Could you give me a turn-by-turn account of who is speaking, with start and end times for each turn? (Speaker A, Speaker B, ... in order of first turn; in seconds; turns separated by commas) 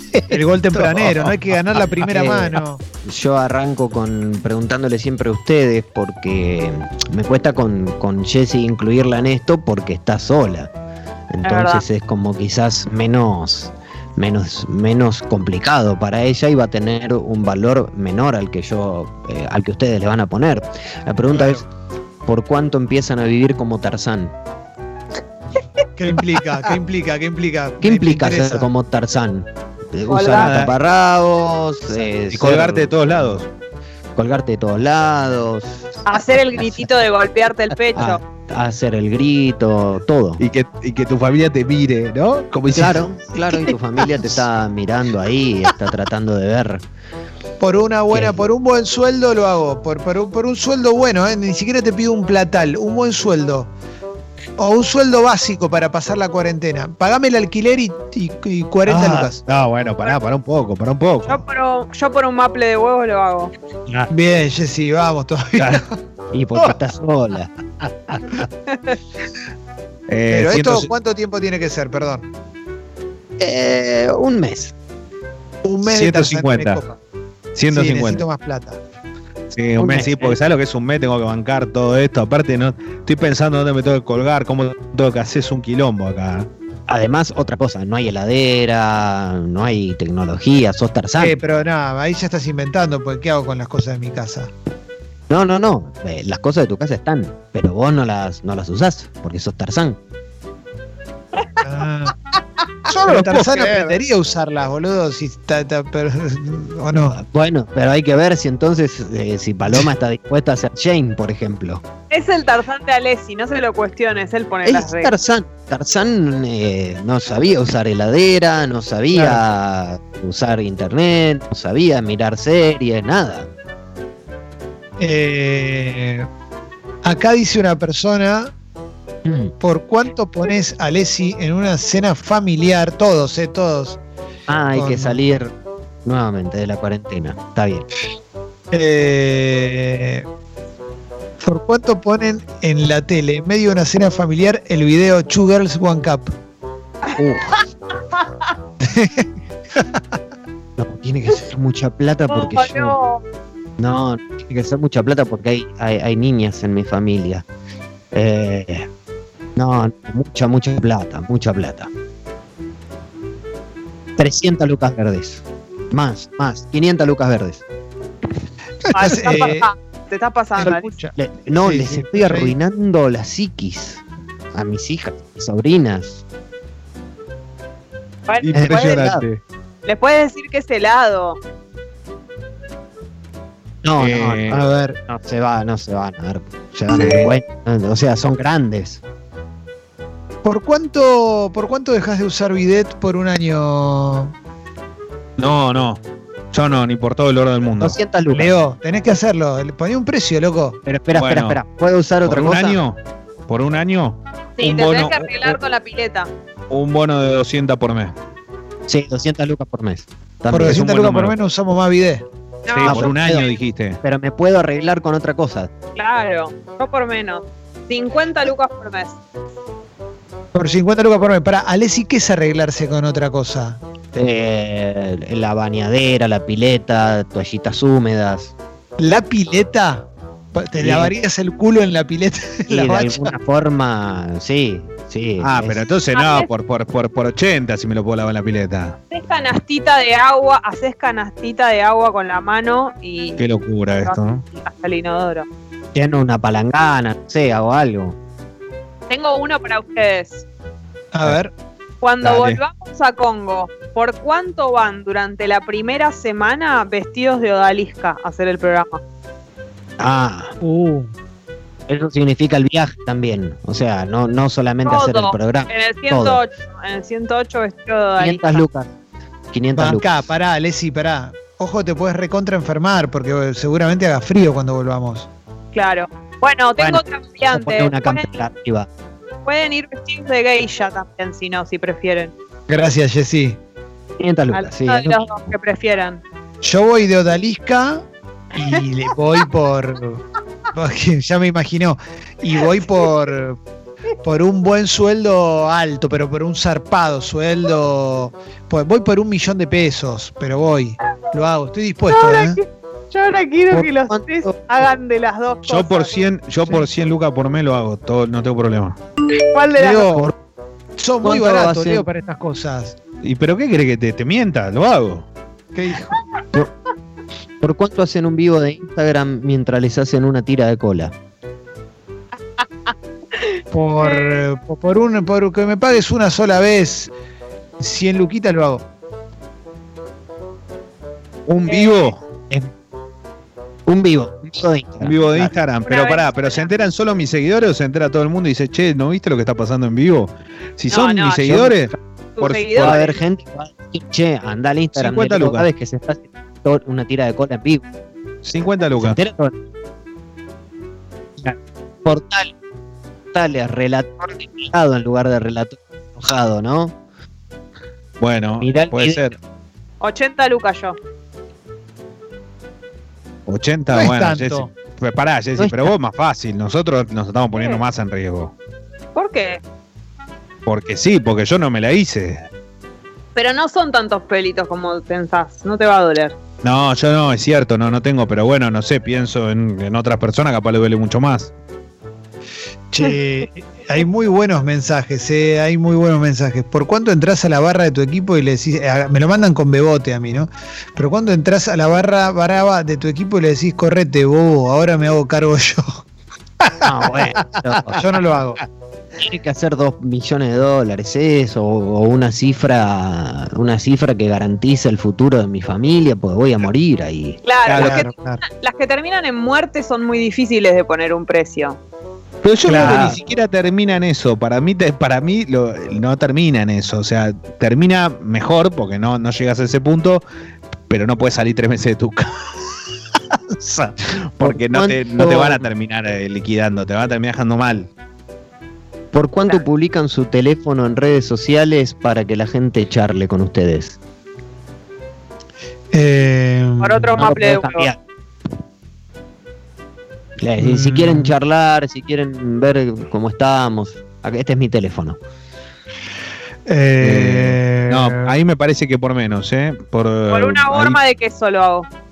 Speaker A: 0.3-2.8, Speaker B: 0.8-1.3, Speaker C: 2.0-10.7, Speaker C: 11.3-21.6, Speaker D: 11.4-11.8, Speaker A: 21.3-21.6, Speaker C: 22.2-24.3, Speaker A: 26.0-28.7, Speaker C: 27.8-33.3, Speaker D: 30.1-30.6, Speaker B: 30.3-30.7, Speaker B: 32.3-33.5, Speaker C: 34.1-35.8, Speaker D: 36.0-38.2, Speaker C: 36.6-36.8, Speaker C: 37.9-40.4, Speaker B: 40.4-43.0, Speaker C: 42.7-46.8, Speaker A: 47.6-53.7, Speaker C: 48.1-48.5, Speaker A: 54.6-59.4, Speaker B: 58.9-61.4, Speaker D: 61.2-63.5, Speaker A: 64.1-66.0, Speaker B: 65.6-65.8, Speaker C: 66.3-67.5, Speaker D: 68.7-69.0, Speaker B: 70.1-70.9, Speaker A: 70.3-72.3, Speaker C: 73.4-74.7, Speaker A: 75.6-77.0, Speaker B: 75.8-76.8, Speaker B: 77.5-78.2, Speaker A: 77.7-78.8, Speaker B: 79.5-86.5, Speaker C: 79.8-80.3, Speaker C: 86.9-91.3, Speaker A: 91.2-94.5, Speaker C: 95.3-100.0, Speaker D: 101.3-101.7, Speaker A: 101.6-102.2, Speaker A: 102.9-107.2, Speaker B: 103.0-103.9, Speaker C: 106.9-111.8, Speaker D: 112.1-115.1, Speaker C: 114.6-123.5, Speaker A: 119.1-119.4, Speaker A: 125.0-126.3, Speaker A: 127.0-128.5, Speaker C: 129.2-129.5, Speaker A: 129.6-134.0, Speaker C: 134.5-135.5, Speaker A: 134.7-135.2, Speaker C: 136.0-137.8, Speaker A: 138.7-140.2, Speaker A: 141.4-146.3, Speaker D: 147.0-147.6, Speaker C: 147.2-147.6, Speaker A: 148.8-150.0, Speaker C: 150.8-153.0, Speaker D: 152.3-153.2, Speaker C: 153.8-157.4, Speaker C: 158.1-158.9, Speaker C: 159.6-161.9, Speaker C: 164.2-167.6, Speaker A: 168.8-169.7, Speaker D: 168.9-170.9, Speaker A: 170.6-172.5, Speaker C: 171.2-174.0, Speaker C: 174.5-176.2, Speaker D: 178.3-179.0, Speaker B: 178.4-179.4, Speaker C: 178.5-179.2, Speaker D: 179.8-181.4, Speaker C: 183.8-189.0, Speaker B: 184.0-184.6, Speaker A: 184.5-185.0, Speaker B: 186.9-187.3, Speaker A: 190.4-194.3, Speaker B: 195.4-196.0, Speaker B: 196.5-198.0, Speaker C: 197.8-198.5, Speaker A: 198.3-200.8, Speaker C: 200.8-202.8, Speaker B: 201.1-201.6, Speaker B: 202.2-205.6, Speaker D: 204.6-206.3, Speaker B: 206.7-208.1, Speaker C: 208.9-210.8, Speaker A: 210.5-212.2, Speaker B: 210.5-211.3, Speaker D: 212.7-213.5, Speaker B: 212.7-214.0, Speaker A: 212.8-213.4, Speaker C: 214.0-215.7, Speaker D: 215.9-219.2, Speaker A: 220.5-223.8, Speaker C: 224.1-228.5, Speaker A: 229.0-233.3, Speaker C: 230.8-231.1, Speaker C: 232.7-235.8, Speaker B: 235.4-239.0, Speaker D: 236.1-236.5, Speaker D: 239.1-243.4, Speaker B: 243.4-244.4, Speaker D: 244.0-245.5, Speaker C: 245.9-248.2, Speaker D: 249.1-250.4, Speaker A: 251.1-251.5, Speaker D: 252.0-259.0, Speaker B: 252.2-252.6, Speaker C: 260.0-260.5, Speaker A: 260.6-261.1, Speaker C: 261.9-266.4, Speaker D: 264.8-268.6, Speaker C: 268.2-268.9, Speaker C: 269.5-270.2, Speaker A: 269.8-275.3, Speaker D: 275.7-278.3, Speaker C: 276.8-278.9, Speaker D: 279.4-282.3, Speaker A: 282.7-283.6, Speaker C: 284.2-285.5, Speaker D: 284.5-286.2, Speaker A: 286.6-293.6, Speaker A: 294.2-302.6, Speaker D: 302.1-306.1, Speaker C: 303.7-304.6, Speaker B: 305.6-309.0, Speaker D: 309.5-310.2, Speaker A: 309.7-310.2, Speaker A: 311.0-312.9, Speaker C: 311.2-312.1, Speaker B: 313.2-315.2, Speaker A: 315.7-316.2, Speaker C: 317.6-321.1, Speaker D: 322.6-324.4, Speaker A: 323.7-327.1, Speaker A: 327.8-328.8, Speaker B: 331.5-332.2, Speaker D: 331.6-332.1, Speaker C: 333.9-335.5, Speaker B: 335.0-343.0, Speaker D: 335.9-336.7, Speaker D: 340.9-341.6, Speaker C: 341.5-341.9, Speaker D: 342.4-343.2, Speaker C: 342.8-347.8, Speaker B: 344.9-345.7, Speaker B: 348.4-349.2, Speaker C: 349.0-349.6, Speaker C: 351.4-352.5, Speaker C: 353.3-356.9, Speaker B: 358.2-359.3, Speaker C: 358.6-359.3, Speaker D: 360.0-361.0, Speaker B: 363.5-368.5, Speaker A: 363.9-364.7, Speaker C: 365.6-365.9, Speaker D: 367.5-367.8, Speaker D: 369.1-369.6, Speaker B: 370.6-372.4, Speaker D: 373.3-376.4, Speaker B: 376.6-381.5, Speaker A: 382.9-396.0, Speaker A: 396.6-398.6, Speaker C: 396.8-398.0, Speaker C: 399.2-407.4, Speaker D: 407.4-411.8, Speaker B: 407.7-408.0, Speaker A: 407.7-408.4, Speaker B: 412.4-420.2, Speaker A: 412.6-413.2, Speaker C: 412.8-413.1, Speaker B: 420.9-422.8, Speaker B: 423.3-427.9, Speaker C: 424.4-425.7, Speaker C: 429.1-434.0, Speaker A: 435.9-437.2, Speaker D: 436.8-437.9, Speaker C: 437.2-438.0, Speaker C: 440.4-445.2, Speaker A: 440.6-441.3, Speaker A: 446.7-448.3, Speaker B: 447.0-451.0, Speaker D: 450.3-451.9